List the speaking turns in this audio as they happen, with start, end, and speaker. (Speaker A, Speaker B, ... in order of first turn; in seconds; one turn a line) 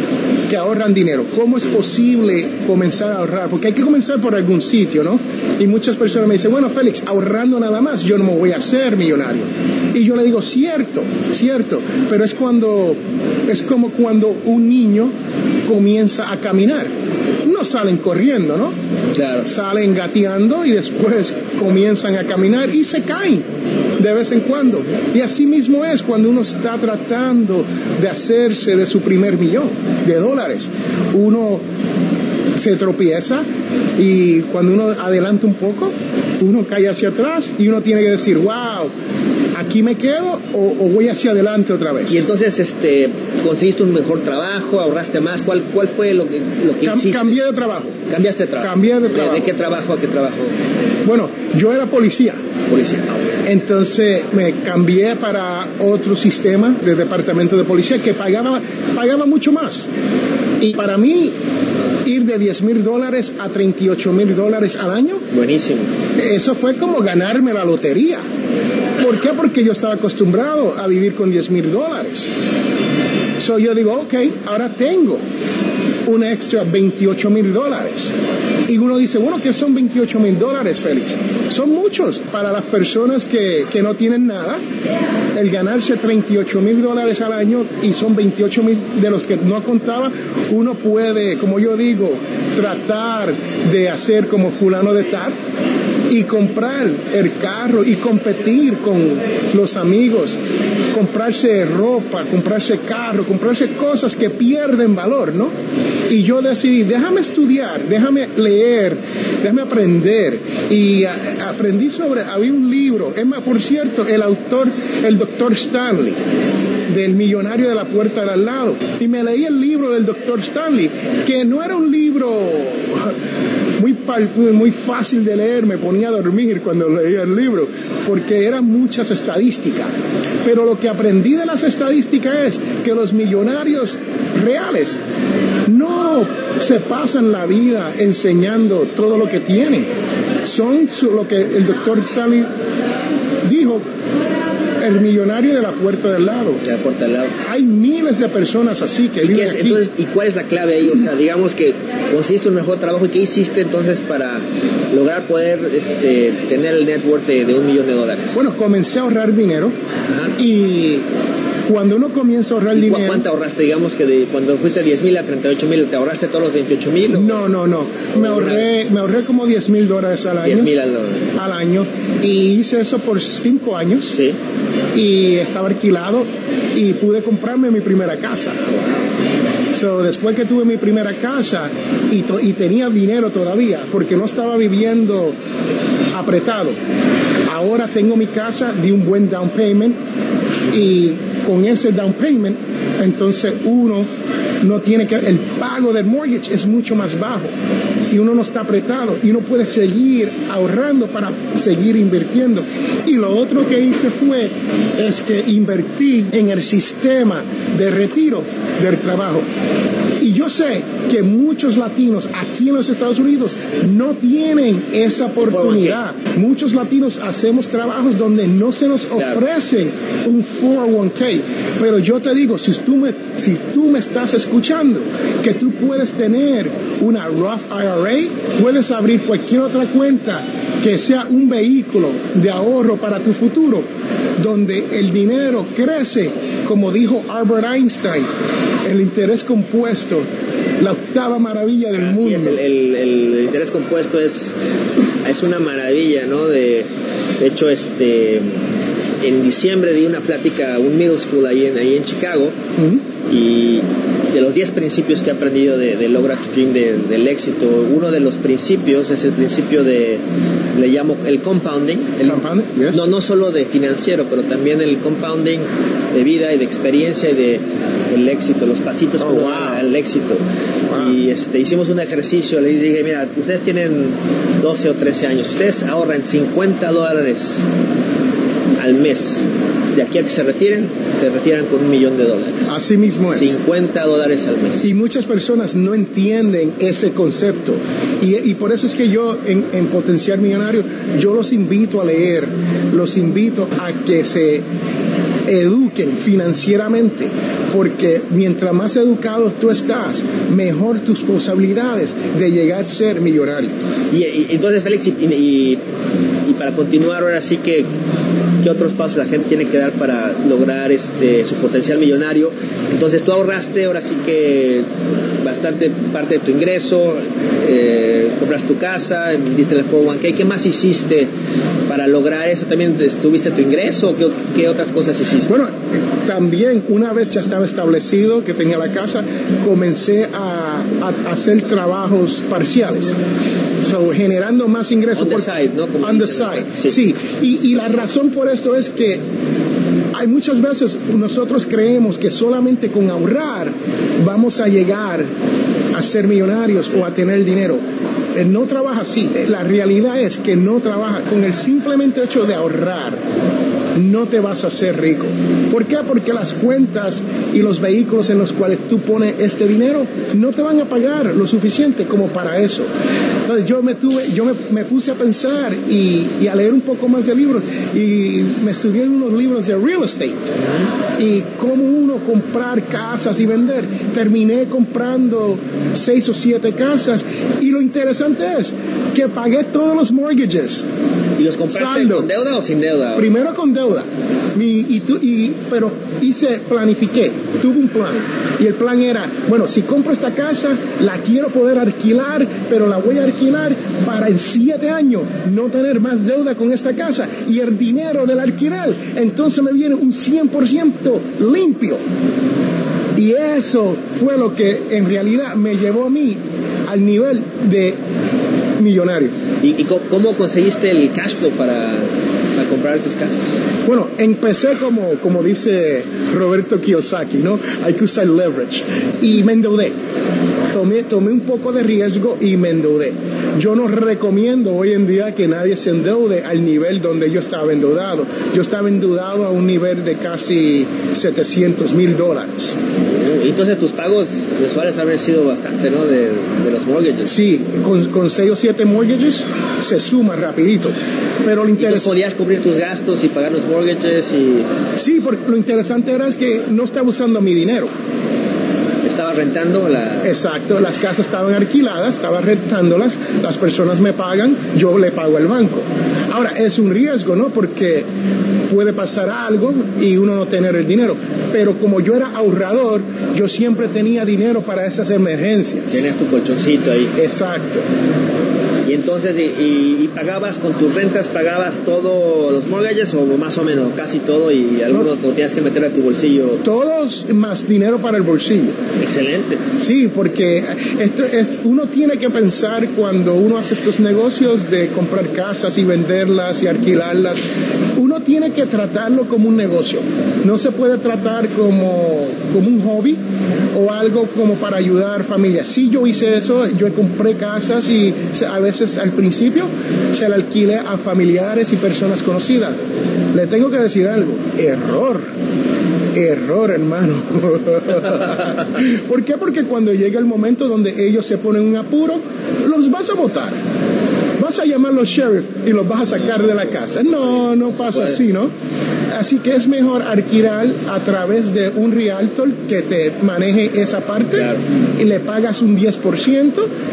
Speaker A: 0.5-15.1
Speaker A: 15.7-16.9
Speaker A: 17.4-18.8
Speaker B: 19.1-19.5
Speaker A: 19.4-23.5
Speaker A: 24.0-31.6
Speaker A: 32.5-38.9
Speaker A: 39.5-42.2
Speaker B: 42.1-47.4
Speaker A: 46.8-48.0
Speaker B: 48.1-50.5
Speaker A: 48.6-49.5
Speaker A: 51.0-52.4
Speaker B: 52.7-53.2
Speaker A: 53.5-59.9
Speaker A: 60.6-61.4
Speaker A: 62.0-65.2
Speaker B: 65.3-65.9
Speaker A: 66.2-68.2
Speaker A: 69.0-72.3
Speaker A: 73.4-75.2
Speaker A: 76.1-78.1
Speaker A: 78.7-84.6
Speaker A: 85.3-95.3
Speaker A: 96.1-100.4
Speaker A: 100.9-105.5
Speaker A: 106.1-116.2
Speaker A: 116.9-123.2
Speaker A: 123.8-129.9
Speaker A: 130.4-135.0
Speaker A: 135.7-139.9
Speaker A: 140.4-142.5
Speaker A: 143.4-143.9
Speaker A: 144.8-146.6
Speaker B: 146.6-147.4
Speaker A: 147.4-149.9
Speaker B: 149.2-158.4
Speaker A: 158.3-159.8
Speaker A: 160.4-161.1
Speaker A: 161.7-163.3
Speaker B: 162.8-167.4
Speaker A: 167.1-170.8
Speaker B: 168.2-168.7
Speaker B: 170.4-171.3
Speaker A: 171.3-174.2
Speaker A: 174.9-178.6
Speaker B: 178.7-179.1
Speaker A: 179.7-185.4
Speaker A: 186.1-186.8
Speaker A: 187.5-190.0
Speaker A: 190.7-194.1
Speaker A: 194.6-197.5
Speaker A: 198.1-209.5
Speaker A: 210.2-233.9
Speaker B: 215.4-216.0
Speaker A: 234.4-238.3
Speaker A: 238.8-240.3
Speaker A: 240.8-242.6
Speaker B: 241.9-244.6
Speaker B: 245.2-248.6
Speaker B: 249.2-252.6
Speaker A: 252.8-253.0
Speaker B: 253.3-260.2
Speaker B: 260.8-277.6
Speaker A: 262.3-263.1
Speaker A: 269.2-269.9
Speaker A: 270.9-271.1
Speaker B: 278.8-282.7
Speaker A: 282.7-283.6
Speaker B: 283.3-284.9
Speaker A: 284.8-294.7
Speaker A: 295.5-303.8
Speaker B: 304.1-305.8
Speaker B: 306.5-307.9
Speaker B: 308.6-314.9
Speaker B: 315.4-321.3
Speaker B: 321.9-325.6
Speaker A: 325.5-333.2
Speaker A: 333.8-339.2
Speaker B: 335.1-337.0
Speaker A: 340.1-345.3
Speaker A: 345.9-347.8
Speaker A: 348.4-353.2
Speaker A: 353.9-362.9
Speaker A: 363.4-370.5
Speaker A: 371.2-380.9
Speaker B: 381.4-383.3
Speaker A: 381.7-382.3
Speaker A: 383.2-402.0
Speaker A: 403.2-408.0
Speaker A: 408.8-409.4
Speaker B: 409.6-413.6
Speaker A: 413.9-419.9
Speaker A: 420.7-432.8
Speaker B: 433.1-437.4
Speaker A: 437.3-442.1
Speaker B: 441.8-444.7
Speaker A: 445.0-447.9
Speaker B: 449.0-450.3
Speaker A: 450.2-458.1
Speaker A: 458.7-466.0
Speaker B: 465.9-467.1
Speaker A: 467.2-467.9
Speaker B: 468.9-476.6
Speaker A: 476.6-478.8
Speaker B: 479.0-479.6
Speaker A: 479.8-487.4
Speaker A: 488.0-493.2
Speaker A: 493.7-505.3
Speaker A: 506.1-513.6
Speaker A: 514.4-518.5
Speaker B: 517.7-518.2
Speaker A: 519.1-526.7
Speaker B: 524.3-524.6